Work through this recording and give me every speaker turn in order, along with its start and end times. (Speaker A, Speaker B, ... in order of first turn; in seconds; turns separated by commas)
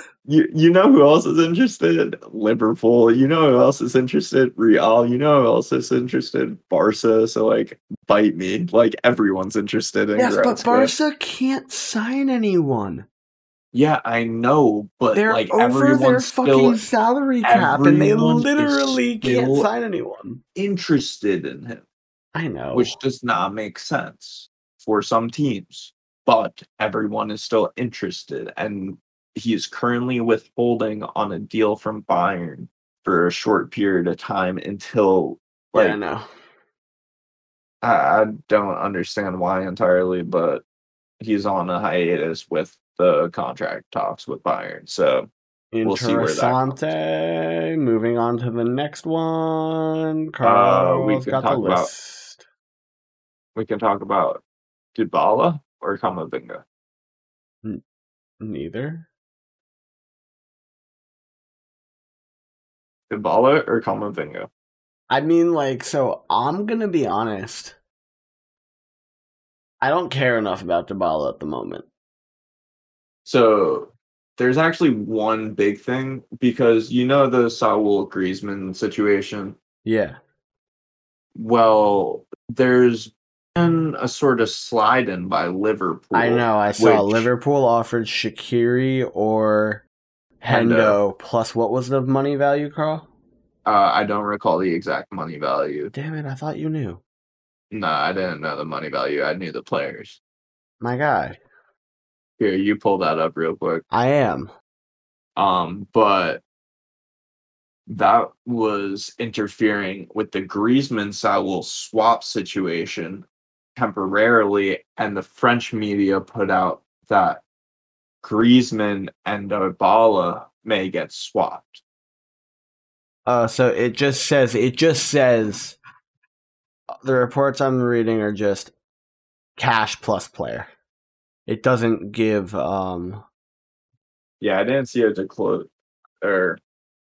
Speaker A: 0.2-10.9, Speaker B: 10.2-13.1, Speaker A: 13.7-16.8, Speaker B: 15.1-20.4, Speaker A: 17.4-19.7, Speaker A: 20.6-21.9, Speaker B: 22.3-23.0, Speaker A: 22.7-36.0, Speaker B: 35.7-36.2, Speaker A: 37.8-40.6, Speaker A: 41.2-45.3, Speaker B: 45.7-52.4, Speaker A: 45.8-46.9, Speaker A: 50.4-51.9, Speaker A: 53.5-54.4, Speaker A: 54.9-56.6, Speaker B: 58.4-59.1, Speaker A: 63.1-64.5, Speaker B: 65.1-67.8, Speaker B: 69.8-71.8, Speaker A: 73.2-79.5, Speaker B: 79.8-80.2, Speaker A: 81.3-87.3, Speaker B: 86.1-89.8, Speaker B: 90.4-93.1, Speaker A: 90.5-91.0, Speaker A: 93.7-95.9, Speaker B: 95.9-97.0, Speaker A: 97.7-100.2, Speaker B: 100.8-101.4, Speaker A: 102.4-103.8, Speaker B: 103.9-104.5, Speaker A: 105.3-106.4, Speaker A: 107.9-113.2, Speaker A: 113.8-117.4, Speaker A: 118.2-121.8, Speaker B: 123.2-125.8, Speaker B: 127.0-128.7, Speaker B: 129.6-130.7, Speaker B: 131.5-133.2, Speaker A: 134.4-135.7, Speaker A: 136.2-136.6